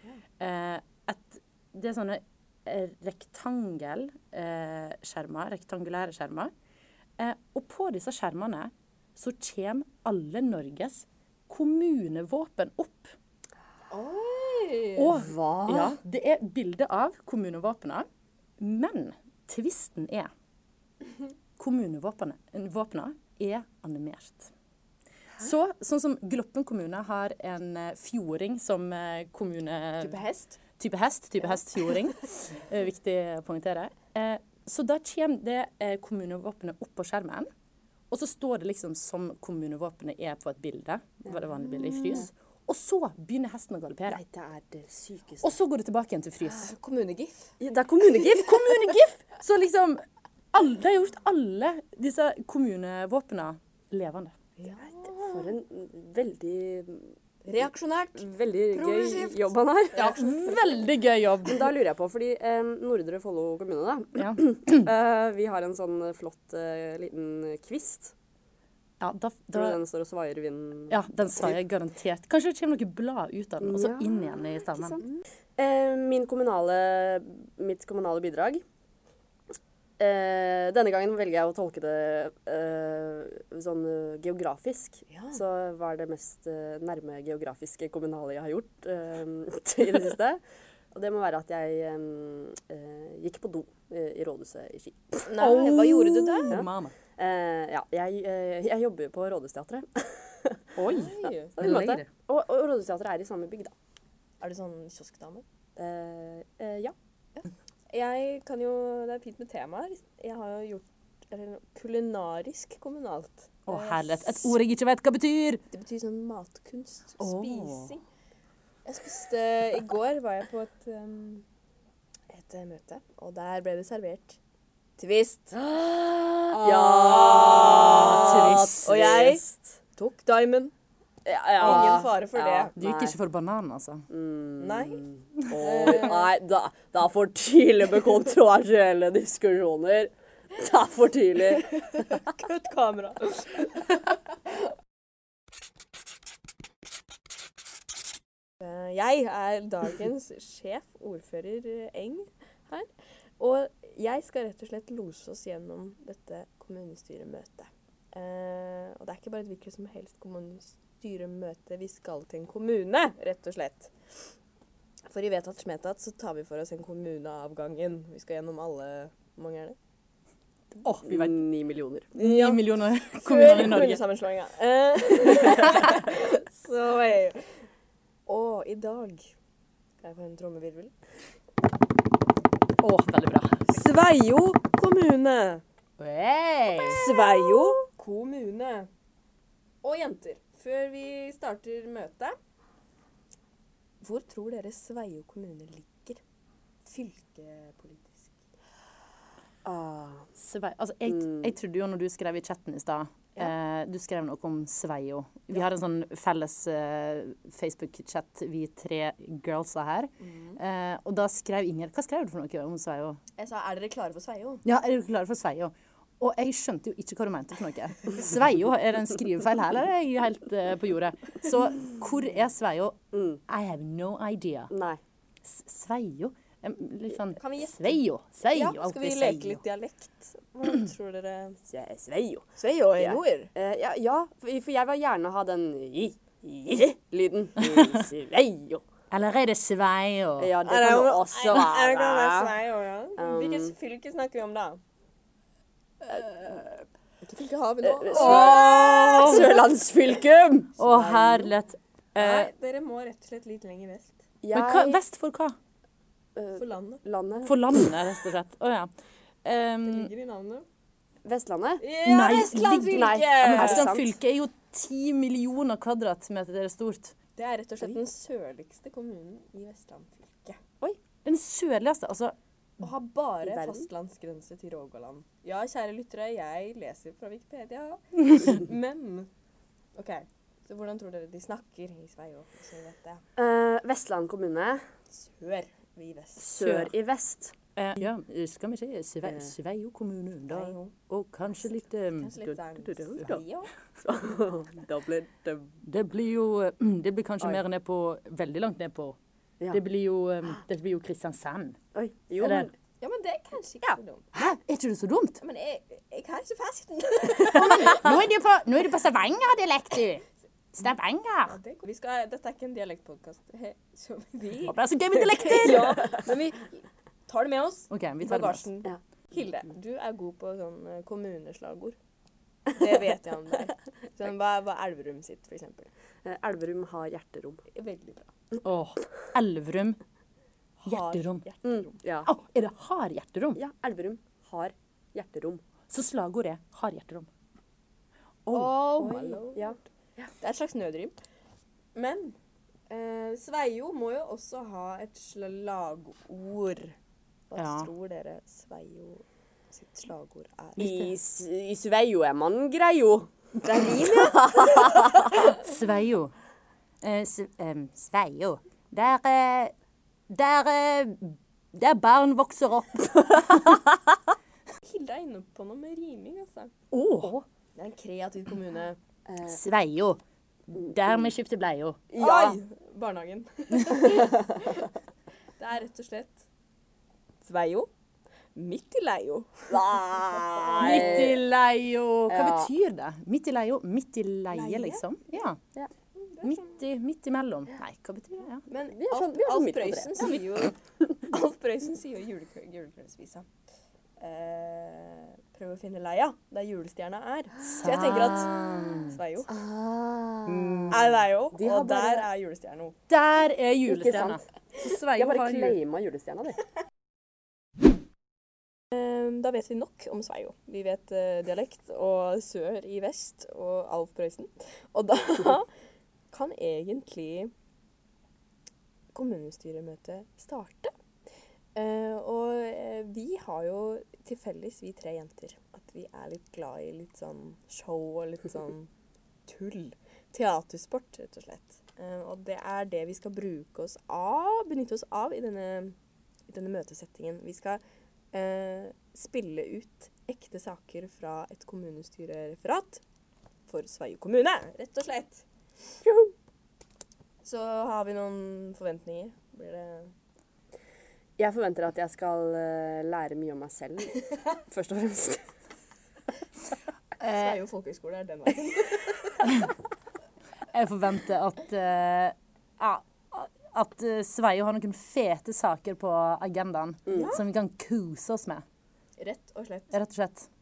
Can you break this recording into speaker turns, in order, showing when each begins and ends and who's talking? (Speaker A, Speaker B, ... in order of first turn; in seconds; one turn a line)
Speaker A: 0.4-6.5
Speaker A: 7.2-13.2
Speaker B: 13.9-15.1
Speaker A: 14.9-18.1
Speaker C: 15.1-16.0
Speaker A: 18.6-20.3
Speaker A: 21.6-24.5
Speaker A: 25.4-30.2
Speaker B: 30.0-30.6
Speaker A: 30.8-37.5
Speaker A: 38.1-44.2
Speaker C: 41.2-42.2
Speaker C: 44.1-45.5
Speaker A: 45.4-46.7
Speaker B: 46.4-47.5
Speaker C: 47.6-48.7
Speaker A: 48.2-54.3
Speaker B: 54.6-55.5
Speaker C: 55.2-57.6
Speaker B: 57.5-60.6
Speaker C: 58.1-60.1
Speaker A: 59.9-61.7
Speaker C: 61.5-68.1
Speaker A: 64.2-64.9
Speaker A: 69.0-69.8
Speaker C: 69.5-71.6
Speaker A: 70.9-75.0
Speaker C: 73.6-75.0
Speaker C: 75.6-78.6
Speaker C: 80.0-95.4
Speaker B: 85.1-85.4
Speaker B: 95.3-96.5
Speaker A: 95.4-96.9
Speaker C: 96.5-100.7
Speaker A: 100.8-102.1
Speaker B: 100.9-101.5
Speaker C: 101.5-103.7
Speaker B: 104.4-105.4
Speaker C: 105.8-106.9
Speaker B: 107.4-114.5
Speaker A: 113.7-115.6
Speaker B: 115.7-118.0
Speaker A: 117.2-117.9
Speaker B: 118.8-121.4
Speaker B: 122.3-124.4
Speaker B: 125.0-125.7
Speaker C: 125.7-125.9
Speaker B: 126.3-129.4
Speaker C: 126.5-129.6
Speaker A: 127.7-128.9
Speaker B: 129.9-130.7
Speaker C: 131.2-133.1
Speaker B: 131.6-132.9
Speaker A: 131.6-131.9
Speaker A: 132.8-134.1
Speaker C: 134.1-141.9
Speaker B: 134.6-135.0
Speaker B: 135.6-136.3
Speaker B: 141.8-143.8
Speaker B: 148.6-164.3
Speaker B: 165.1-169.8
Speaker A: 170.8-171.4
Speaker C: 171.0-172.1
Speaker A: 172.1-174.0
Speaker B: 172.1-177.6
Speaker B: 178.3-179.3
Speaker B: 180.0-180.9
Speaker A: 182.8-183.7
Speaker B: 183.7-185.6
Speaker A: 186.0-187.0
Speaker B: 186.8-188.9
Speaker C: 186.9-187.8
Speaker B: 189.8-192.3
Speaker B: 194.0-196.2
Speaker B: 196.8-198.4
Speaker C: 199.6-200.3
Speaker A: 200.3-213.2
Speaker C: 201.1-201.5
Speaker B: 210.2-210.6
Speaker B: 213.4-214.6
Speaker A: 214.6-224.7
Speaker C: 223.1-223.4
Speaker C: 224.7-225.0
Speaker A: 225.4-229.6
Speaker B: 227.4-231.6
Speaker C: 231.7-238.8
Speaker B: 232.6-233.5
Speaker A: 237.6-238.1
Speaker A: 239.1-240.5
Speaker C: 240.4-242.5
Speaker B: 240.6-244.8
Speaker C: 243.2-243.7
Speaker A: 246.1-246.6
Speaker B: 247.2-249.7
Speaker C: 247.8-251.5
Speaker A: 248.1-249.5
Speaker A: 250.8-252.5
Speaker B: 252.2-254.2
Speaker C: 254.4-255.0
Speaker A: 254.5-255.6
Speaker C: 256.4-258.0
Speaker B: 256.6-257.0
Speaker A: 257.4-258.9
Speaker A: 259.4-260.1
Speaker B: 259.8-260.6
Speaker C: 261.2-261.8
Speaker B: 261.8-263.9
Speaker A: 262.1-267.1
Speaker C: 262.9-264.1
Speaker B: 267.4-270.6
Speaker A: 271.2-272.3
Speaker B: 272.8-279.3
Speaker C: 273.4-273.8
Speaker B: 279.9-283.2
Speaker C: 283.4-284.9
Speaker B: 285.1-286.5
Speaker A: 286.4-286.9
Speaker C: 286.5-287.5
Speaker A: 287.8-293.4
Speaker C: 289.2-289.5
Speaker B: 290.5-290.9
Speaker B: 291.6-293.7
Speaker C: 292.9-293.4
Speaker C: 294.0-295.7
Speaker A: 295.8-299.2
Speaker A: 299.7-301.8
Speaker C: 301.9-302.7
Speaker A: 302.4-302.7
Speaker B: 303.0-304.2
Speaker A: 304.3-305.4
Speaker B: 305.4-308.1
Speaker C: 307.5-307.9
Speaker A: 307.6-311.6
Speaker B: 311.4-314.8
Speaker A: 314.6-316.1
Speaker B: 315.4-321.9
Speaker C: 315.4-316.2
Speaker A: 317.9-318.6
Speaker B: 322.7-325.9
Speaker C: 326.2-327.6
Speaker B: 327.7-328.3
Speaker A: 328.6-330.0
Speaker B: 330.8-332.0
Speaker A: 330.8-331.4
Speaker C: 331.6-332.3
Speaker A: 332.2-333.6
Speaker C: 333.6-335.6
Speaker A: 335.9-337.3
Speaker A: 338.4-338.8
Speaker B: 338.5-339.8
Speaker C: 339.0-340.3
Speaker B: 340.4-341.1
Speaker B: 341.9-342.4
Speaker B: 342.9-346.9
Speaker B: 347.5-351.0
Speaker A: 347.6-347.9
Speaker A: 350.8-351.1
Speaker C: 350.8-355.3
Speaker B: 353.6-355.5
Speaker A: 355.3-356.3
Speaker A: 357.0-359.7
Speaker A: 360.3-363.8
Speaker B: 364.8-366.7
Speaker A: 366.9-367.4
Speaker B: 367.8-369.0
Speaker C: 369.3-369.6
Speaker A: 369.5-372.0
Speaker C: 370.7-371.3
Speaker C: 372.1-372.6
Speaker B: 372.1-374.9
Speaker C: 374.1-374.5
Speaker B: 375.6-376.4
Speaker B: 377.4-377.9
Speaker B: 378.5-379.8
Speaker C: 379.7-381.4
Speaker B: 380.5-381.2
Speaker A: 380.8-385.6
Speaker C: 382.3-382.7
Speaker B: 384.5-385.0
Speaker B: 386.2-386.7
Speaker A: 386.4-388.6
Speaker B: 388.7-393.5
Speaker C: 388.9-390.4
Speaker B: 394.2-399.5
Speaker A: 397.6-399.2
Speaker C: 399.6-401.0
Speaker A: 400.4-401.0
Speaker B: 400.9-402.9
Speaker C: 401.5-402.3
Speaker A: 403.1-405.8
Speaker C: 403.9-406.6
Speaker B: 408.9-415.7
Speaker B: 416.3-417.5
Speaker B: 419.1-420.9
Speaker B: 421.7-428.9
Speaker B: 429.5-435.9
Speaker B: 436.5-437.8
Speaker B: 438.3-443.0
Speaker B: 443.7-445.4
Speaker C: 446.0-446.3
Speaker B: 447.4-450.1
Speaker C: 451.4-455.5
Speaker A: 457.2-457.6
Speaker B: 457.2-459.4
Speaker A: 459.4-459.7
Speaker A: 460.7-468.6
Speaker C: 467.1-467.4
Speaker B: 467.1-467.4
Speaker B: 469.2-469.9
Speaker A: 469.9-470.5